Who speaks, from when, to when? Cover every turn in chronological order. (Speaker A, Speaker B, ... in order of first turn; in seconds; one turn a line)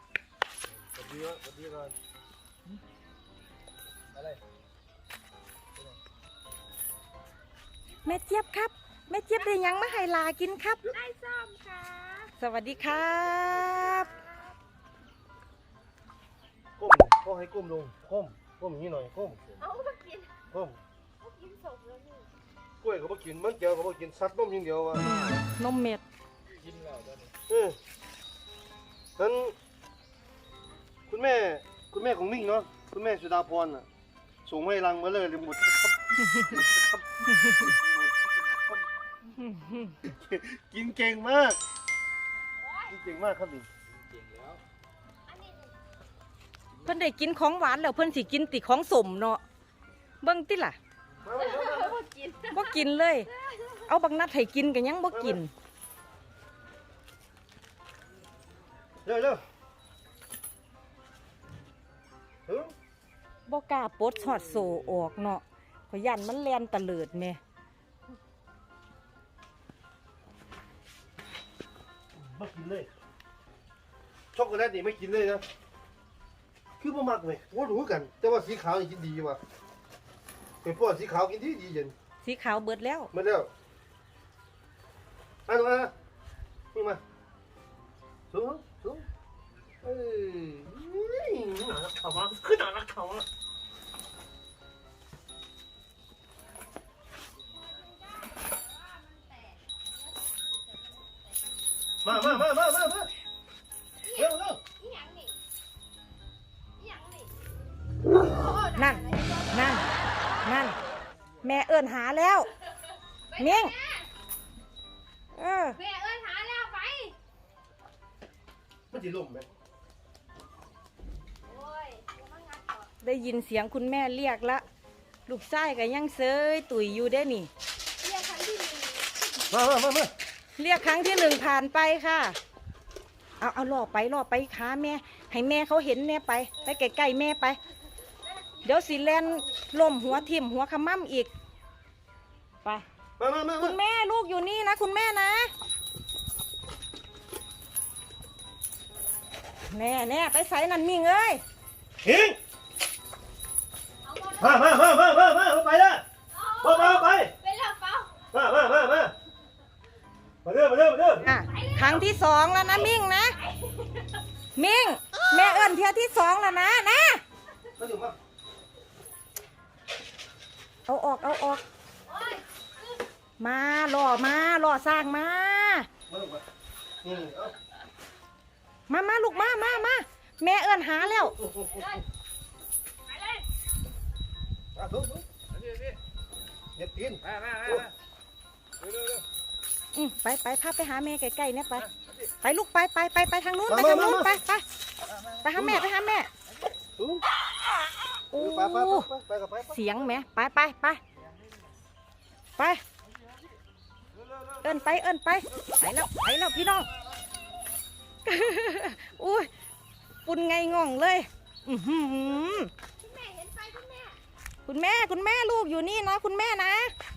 Speaker A: 0.7-1.9
Speaker B: 4.1-4.4
Speaker C: 8.0-10.9
Speaker D: 10.8-12.3
Speaker C: 12.4-14.1
Speaker D: 13.7-14.5
Speaker A: 16.8-19.4
Speaker D: 19.6-20.3
Speaker A: 20.5-20.8
Speaker D: 21.2-22.3
Speaker A: 22.8-25.1
Speaker C: 25.0-26.0
Speaker B: 26.6-27.3
Speaker A: 27.5-27.8
Speaker A: 29.2-29.6
Speaker A: 31.1-33.9
Speaker A: 34.4-38.8
Speaker C: 39.3-40.0
Speaker A: 40.0-41.6
Speaker D: 42.6-42.9
Speaker A: 42.9-43.7
Speaker B: 43.9-44.6
Speaker D: 45.3-45.7
Speaker C: 46.8-49.4
Speaker C: 50.2-50.8
Speaker A: 51.2-52.0
Speaker D: 51.4-52.8
Speaker C: 52.5-53.3
Speaker D: 53.3-53.8
Speaker C: 53.9-55.5
Speaker A: 55.1-55.4
Speaker A: 59.0-59.4
Speaker A: 62.5-62.7
Speaker C: 63.5-67.4
Speaker A: 72.2-72.9
Speaker A: 74.3-75.4
Speaker A: 76.8-79.4
Speaker A: 80.6-81.9
Speaker C: 82.2-83.1
Speaker A: 83.1-83.5
Speaker A: 85.5-85.9
Speaker A: 86.7-87.0
Speaker A: 88.3-89.1
Speaker A: 89.8-93.2
Speaker D: 97.7-101.4
Speaker A: 102.0-103.1
Speaker C: 102.1-102.4
Speaker D: 104.0-105.3
Speaker A: 104.1-104.6
Speaker D: 106.8-107.3
Speaker D: 108.2-110.7
Speaker C: 108.8-109.9
Speaker C: 110.4-110.8
Speaker C: 111.4-112.5
Speaker D: 113.3-114.1
Speaker C: 113.4-113.7
Speaker C: 115.3-115.8
Speaker D: 115.8-117.1
Speaker A: 118.9-119.5
Speaker D: 121.5-122.9
Speaker C: 123.0-124.6
Speaker C: 125.2-127.5
Speaker D: 128.0-129.1
Speaker A: 129.5-130.1
Speaker C: 130.6-132.4
Speaker C: 133.4-137.6
Speaker D: 138.2-139.5
Speaker C: 138.6-141.3
Speaker A: 143.2-143.8
Speaker C: 143.6-145.5
Speaker C: 149.7-151.4
Speaker A: 152.0-152.4
Speaker D: 154.0-154.8
Speaker A: 154.4-156.0
Speaker D: 156.3-158.2
Speaker A: 156.6-157.3
Speaker A: 158.3-159.1
Speaker A: 160.4-161.3
Speaker C: 161.2-163.4
Speaker D: 161.3-162.1
Speaker D: 163.3-164.2
Speaker C: 164.6-167.2
Speaker A: 167.8-168.2
Speaker C: 170.9-171.6
Speaker D: 172.1-173.0
Speaker C: 173.4-175.9
Speaker A: 176.1-176.4
Speaker A: 177.0-177.5
Speaker C: 178.9-181.4
Speaker A: 181.4-181.9
Speaker D: 181.7-182.0
Speaker D: 183.1-183.4
Speaker A: 184.7-185.2
Speaker B: 185.5-186.0
Speaker A: 186.8-187.8
Speaker B: 187.2-187.9
Speaker C: 189.9-191.9
Speaker C: 192.4-194.6
Speaker A: 193.7-194.4
Speaker B: 195.1-195.4
Speaker C: 195.4-196.3
Speaker A: 195.6-195.8
Speaker B: 196.5-196.8
Speaker A: 196.9-197.2
Speaker C: 198.3-199.1
Speaker A: 198.3-200.1
Speaker C: 199.7-201.0
Speaker B: 201.2-201.7
Speaker C: 202.6-202.8
Speaker C: 204.6-206.9
Speaker C: 208.2-209.5
Speaker C: 210.2-212.7
Speaker D: 213.0-214.2
Speaker C: 214.7-216.9